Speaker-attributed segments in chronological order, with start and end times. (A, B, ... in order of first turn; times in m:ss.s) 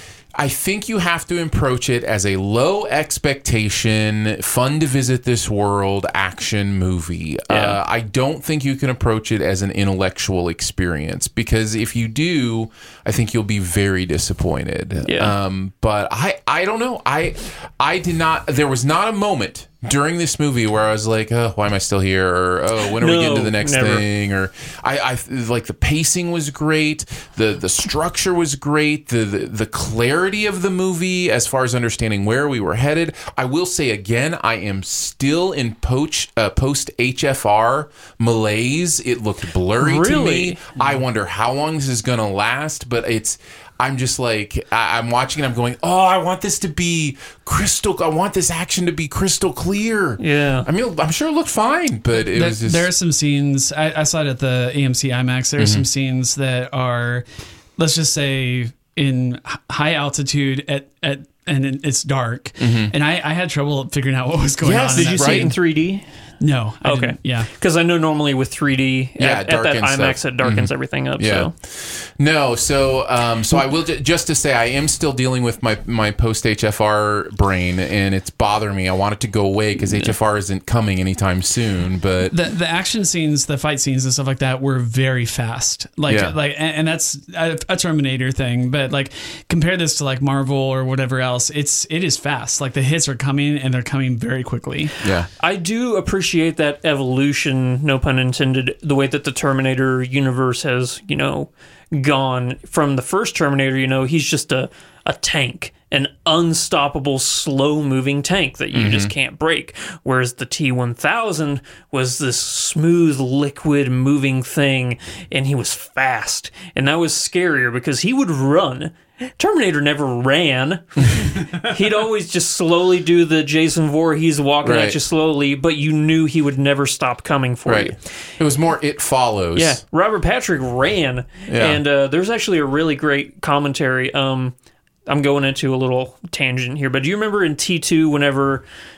0:00.4-0:52.9 A
0:07.5-0:07.8 B
0:15.1-0:15.3 B
0:23.0-0:24.0 B
0:39.8-0:40.6 B
0:50.2-0:50.7 B
0:52.2-0:57.3 C
0:55.6-0:55.9 A
0:57.8-1:05.6 C
1:02.6-1:02.9 A
1:04.6-1:05.6 A
1:04.9-1:06.0 B
1:06.4-1:07.5 C
1:06.8-1:11.5 B
1:09.2-1:22.4 A
1:22.3-1:34.9 C
1:26.1-1:26.4 A
1:35.0-1:35.3 A
1:35.4-2:08.0 B
1:48.7-1:49.1 A
2:04.6-2:05.0 A
2:07.6-2:09.8 A
2:09.6-2:14.5 B
2:11.5-2:11.8 A
2:15.1-2:18.6 B